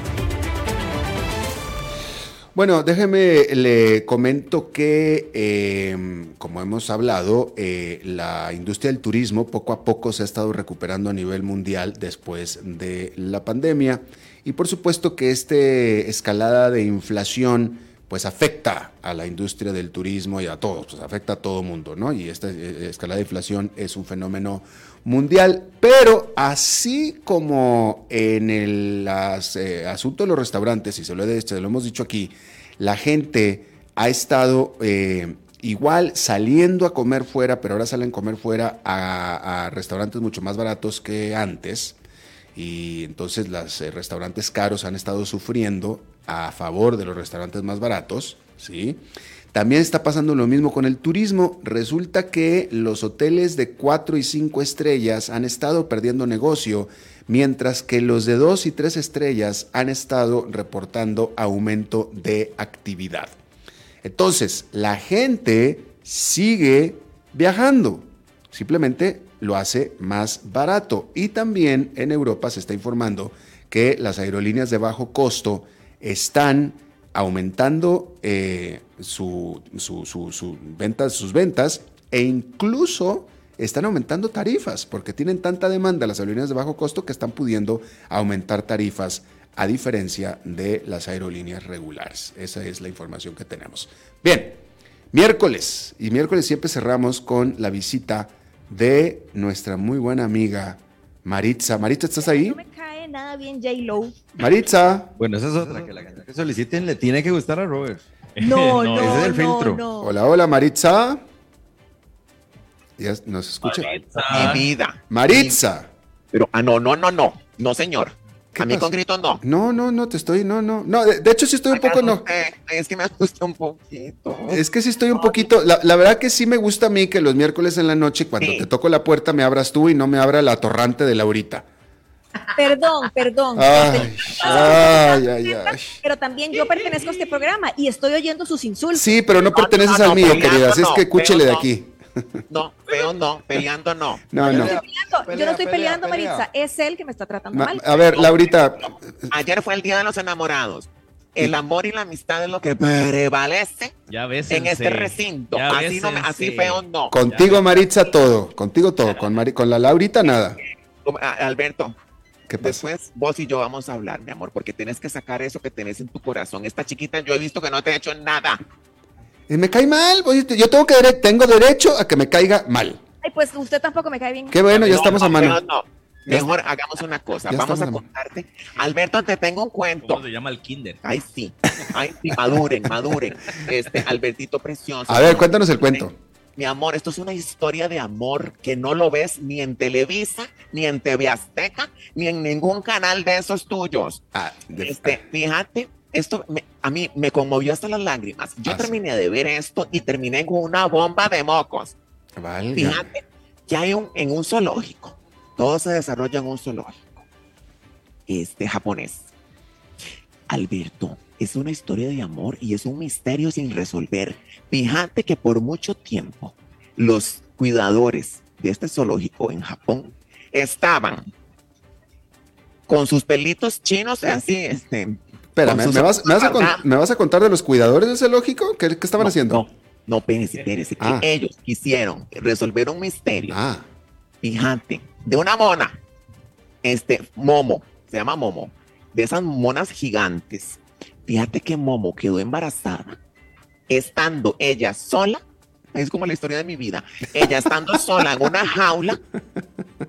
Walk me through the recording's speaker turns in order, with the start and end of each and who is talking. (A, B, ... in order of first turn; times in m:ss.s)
0:02.5-0:42.0 A
0:42.6-1:03.4 A
1:04.0-1:34.6 A
1:35.1-1:42.6 A
1:42.2-1:44.2 B
1:44.4-1:45.1 A
1:45.2-1:48.0 C
1:48.4-1:49.4 D
1:48.4-1:50.2 B
1:48.9-1:49.8 C
1:50.0-1:51.2 A
1:53.0-1:55.9 A
1:53.6-1:54.7 D
1:54.2-1:55.6 E
1:56.3-1:59.4 E
1:58.6-2:02.2 A
2:01.7-2:04.6 E
2:04.5-2:11.7 A
2:05.2-2:05.4 E
2:08.4-2:08.7 E
2:12.6-2:19.2 B
2:13.6-2:16.0 A
2:18.9-2:22.0 A
2:19.5-2:21.7 E
2:22.5-2:24.2 E
2:24.3-2:24.8 A
2:24.4-2:28.2 B
2:25.3-2:26.4 A
2:25.3-2:25.7 C
2:27.5-2:29.2 A
2:29.3-2:34.0 E
2:34.1-2:37.8 D
2:34.5-2:37.1 E
2:37.1-2:40.6 A
2:40.6-2:42.0 E
2:42.5-2:42.9 A
2:42.6-2:48.6 E
2:49.5-2:53.0 A
2:53.2-2:54.7 B
2:54.5-2:55.6 A
2:54.8-3:00.2 E
2:57.5-2:58.0 A
3:00.0-3:01.0 D
3:01.0-3:06.0 E
3:05.1-3:06.2 A
3:06.6-3:14.2 E
3:14.3-3:15.2 A
3:14.8-3:22.0 E
3:18.7-3:19.0 A
3:22.4-3:23.0 A
3:22.8-3:27.2 E
3:28.3-3:29.3 E
3:30.5-3:41.3 E
3:42.9-3:46.8 E
3:45.6-3:49.6 A
3:49.2-3:53.6 E
3:51.0-3:51.3 A
3:53.4-3:53.9 A
3:54.4-3:56.0 E
3:56.8-4:03.2 E
4:03.9-4:05.4 E
4:05.9-4:09.2 E